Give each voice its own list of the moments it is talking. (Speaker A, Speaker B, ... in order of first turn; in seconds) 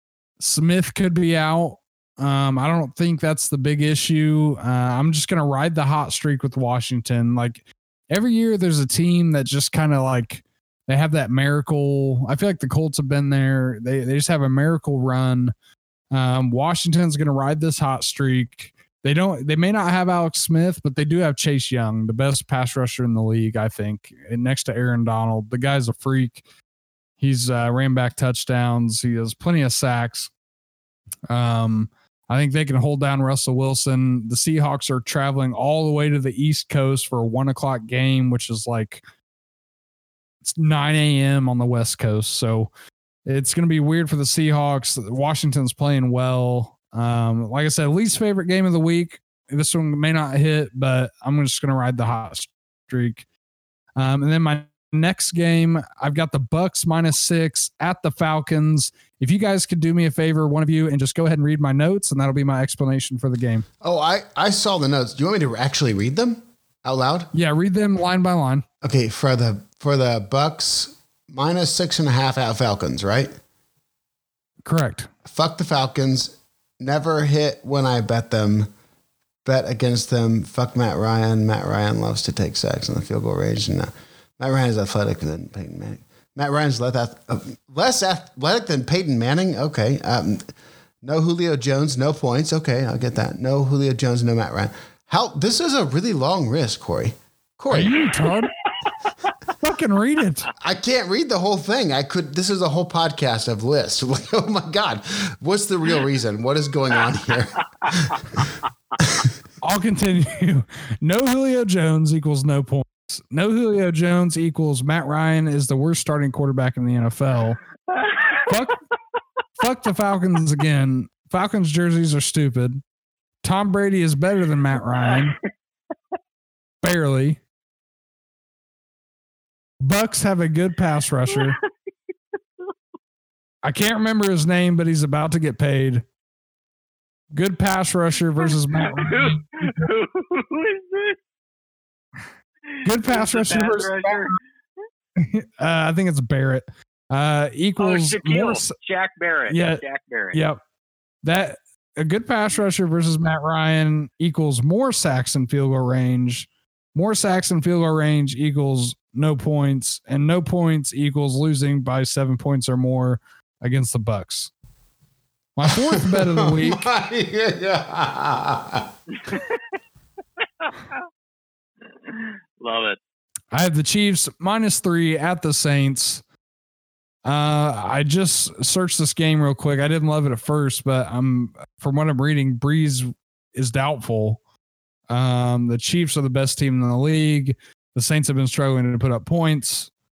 Speaker A: 0.4-15.5, 16.1-26.4, 27.2-30.3, 31.3-39.0, 40.4-42.7, 43.2-53.2, 54.0-63.6, 67.3-68.6, 74.6-75.1, 97.7-98.5, 99.6-100.5, 109.6-117.6, 118.5-118.8, 119.6-122.8, 123.4-125.3, 126.8-127.4, 129.8-131.6, 133.6-136.0, 137.3-139.4, 142.8-144.3, 145.2-148.7, 149.5-149.8, 150.3-150.6, 151.2-164.5, 165.6-166.8, 173.5-176.2, 177.2-184.4, 185.1-189.9
Speaker B: 63.8-67.3, 68.8-73.3, 75.2-78.7, 79.4-90.5, 91.0-98.1, 100.6-108.2, 165.9-168.8
Speaker C: 98.7-99.3, 117.9-118.5, 125.0-125.3, 131.3-131.6, 138.4-141.2, 142.7-144.3, 147.8-150.4, 169.2-169.6, 170.6-170.9, 172.0-173.0